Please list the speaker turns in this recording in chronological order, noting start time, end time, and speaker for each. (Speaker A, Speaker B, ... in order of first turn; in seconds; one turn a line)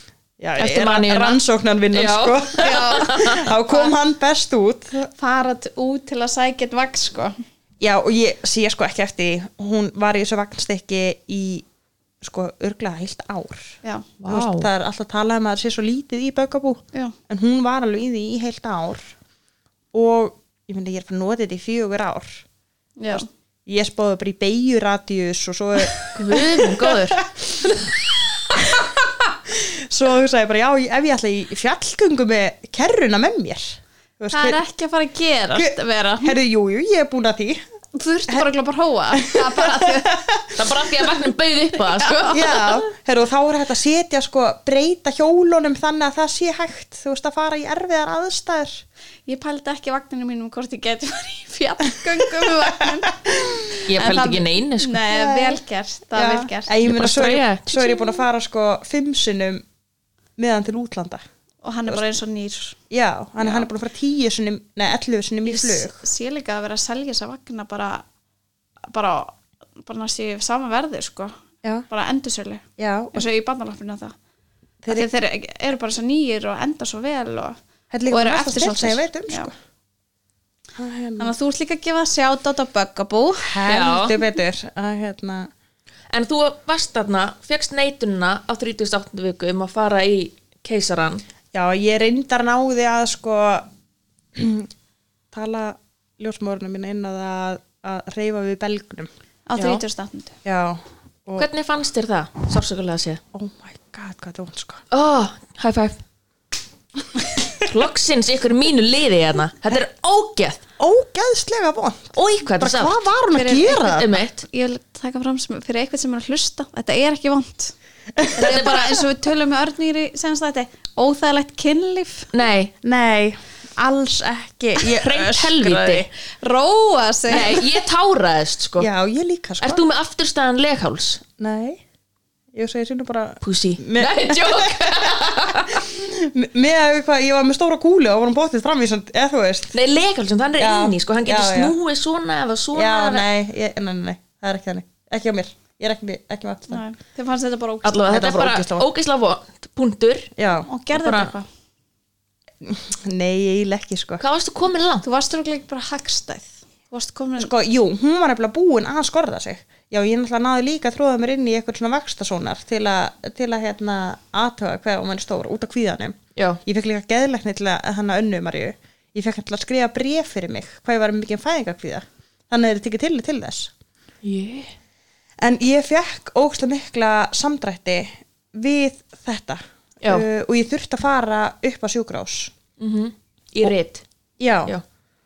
Speaker A: 0.4-5.1
Speaker B: 0.6-1.4
Speaker B: 1.9-3.5
Speaker C: 2.6-3.9
Speaker C: 5.2-7.4
Speaker A: 7.8-11.7
Speaker A: 12.2-13.8
Speaker B: 14.2-14.7
Speaker A: 14.3-19.1
Speaker A: 19.9-22.4
Speaker C: 23.0-23.3
Speaker A: 23.1-27.9
Speaker B: 26.1-27.2
Speaker A: 28.5-34.6
Speaker C: 34.3-36.3
Speaker A: 35.5-37.6
Speaker C: 37.9-40.2
Speaker A: 39.2-40.8
Speaker B: 40.6-42.6
Speaker C: 41.7-42.7
Speaker A: 42.3-48.8
Speaker C: 49.3-56.8
Speaker A: 51.9-53.7
Speaker B: 53.9-55.0
Speaker A: 55.1-55.6
Speaker A: 56.1-59.6
Speaker B: 56.8-57.8
Speaker A: 60.4-61.2
Speaker C: 61.6-62.8
Speaker A: 62.9-66.0
Speaker C: 63.4-63.7
Speaker C: 65.4-68.0
Speaker C: 68.9-71.4
Speaker C: 71.9-74.1
Speaker A: 72.8-73.3
Speaker C: 74.9-79.5
Speaker A: 77.9-79.5
Speaker A: 80.8-81.3
Speaker C: 81.2-83.6
Speaker A: 83.4-85.5
Speaker B: 83.7-84.2
Speaker B: 86.1-91.2
Speaker A: 91.5-93.7
Speaker A: 94.3-94.7
Speaker A: 95.3-99.1
Speaker C: 99.5-100.4
Speaker A: 100.4-101.5
Speaker B: 101.4-103.2
Speaker A: 103.3-104.8
Speaker B: 104.9-106.0
Speaker B: 107.5-110.6
Speaker A: 110.8-114.2
Speaker B: 112.1-113.0
Speaker C: 113.3-113.8
Speaker B: 113.7-114.5
Speaker C: 114.5-117.8
Speaker A: 118.2-118.8
Speaker C: 118.3-122.3
Speaker B: 118.4-119.0
Speaker B: 122.3-122.7
Speaker A: 122.8-126.1
Speaker B: 124.9-126.1
Speaker C: 126.3-127.7
Speaker B: 127.3-128.9
Speaker A: 128.8-129.8
Speaker B: 129.6-131.2
Speaker A: 131.4-131.8
Speaker A: 132.5-139.8
Speaker B: 133.4-135.8
Speaker B: 139.7-143.2
Speaker A: 140.6-141.8
Speaker A: 142.7-146.8
Speaker C: 146.7-148.3
Speaker B: 147.8-150.3
Speaker A: 148.1-148.9
Speaker A: 150.4-150.7
Speaker C: 150.7-151.5
Speaker B: 150.9-151.3
Speaker A: 152.6-154.2
Speaker B: 154.2-155.1
Speaker C: 155.0-157.5
Speaker A: 157.4-173.7
Speaker B: 166.4-166.6
Speaker B: 174.2-174.7
Speaker A: 175.4-182.5
Speaker B: 182.8-184.0
Speaker A: 184.4-184.7